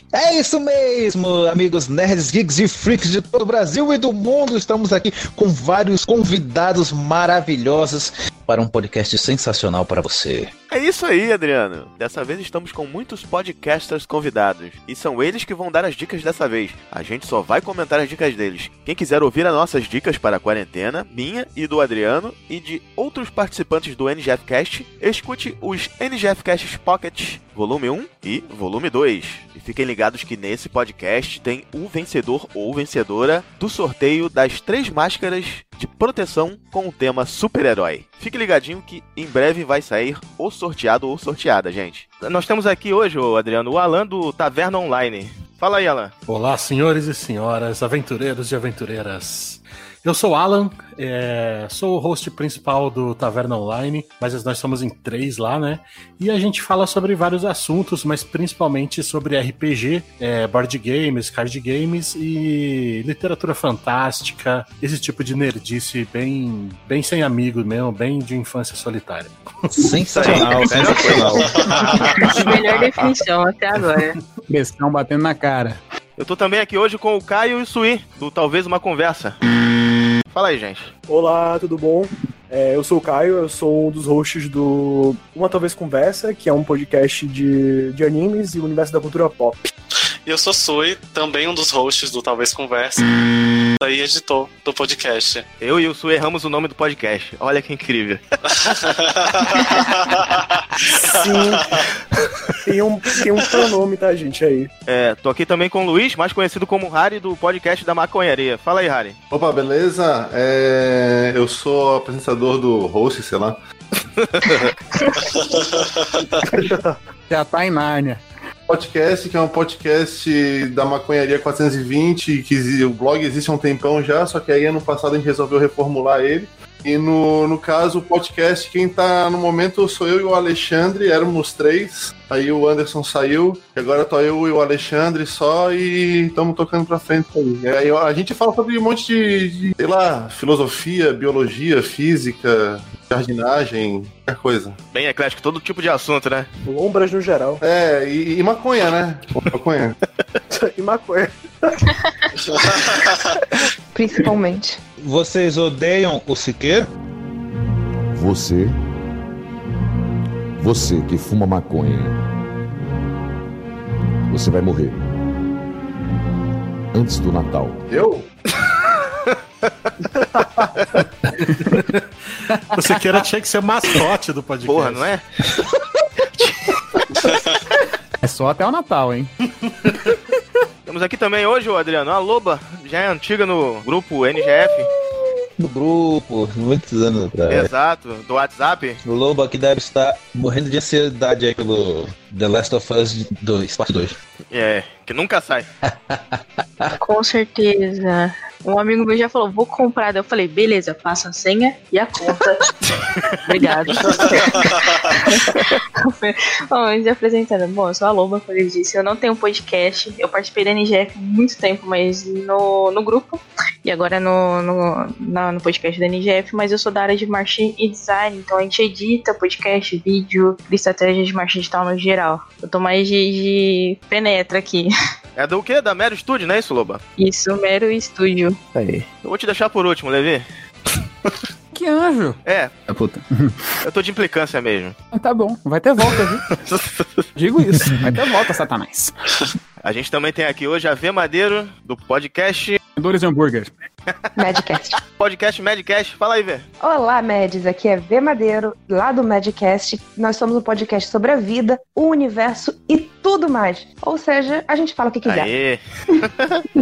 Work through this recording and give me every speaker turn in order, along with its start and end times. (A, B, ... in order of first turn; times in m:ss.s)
0:00.1-0:10.5 A
0:10.7-0:46.1 B
0:46.3-1:09.9 C
1:09.8-1:11.9 A
1:10.1-1:11.7 B
1:10.2-1:14.2 D
1:11.7-1:12.6 C
1:14.5-1:15.8 E
1:16.2-1:19.4 B
1:20.3-1:20.9 B
1:21.1-1:29.7 F
1:30.2-1:33.0 G
1:33.8-1:35.4 G
1:35.6-1:38.2 B
1:38.5-1:41.8 G
1:40.9-1:41.7 F
1:42.6-1:44.7 F
1:44.9-1:49.2 B
1:49.3-1:53.6 H
1:54.2-1:54.7 B
1:55.2-1:56.2 G
1:56.5-1:57.0 F
1:57.3-1:58.2 E
1:58.7-2:24.8 H
2:24.9-2:26.5 B
2:26.6-2:27.6 F
2:27.6-2:30.0 H
2:30.5-2:31.9 F
2:32.5-2:33.1 G
2:32.7-2:33.4 F
2:33.9-2:34.8 I
2:35.0-2:36.9 A
2:38.1-2:38.8 J
2:40.6-2:42.2 J
2:44.3-2:45.0 J
2:46.9-2:47.8 J
2:47.9-2:48.2 H
2:50.1-2:50.7 F
2:51.6-2:52.0 C
2:52.5-2:53.0 E
2:52.7-2:55.1 C
2:54.6-2:55.2 B
2:58.2-2:59.3 E
3:00.8-3:04.9 B
3:05.6-3:07.7 A
3:07.5-3:09.0 B
3:09.0-3:14.2 A
3:14.5-3:15.7 B
3:15.9-3:16.9 A
3:17.0-3:22.6 D
3:23.4-3:44.9 D
3:24.1-3:24.6 G
3:45.4-3:47.0 B
3:47.2-3:48.6 D
3:48.7-3:50.4 B
3:51.7-3:52.4 E
3:52.4-3:52.7 B
3:52.9-3:53.6 E
3:53.8-3:54.9 B
3:55.1-3:56.4 E
3:56.6-3:57.1 B
3:57.4-3:59.1 E
3:59.8-4:02.8 B
4:03.0-4:03.7 E
4:04.4-4:05.0 I
4:05.0-4:06.6 B
4:06.8-4:15.5 I
4:15.2-4:16.6 B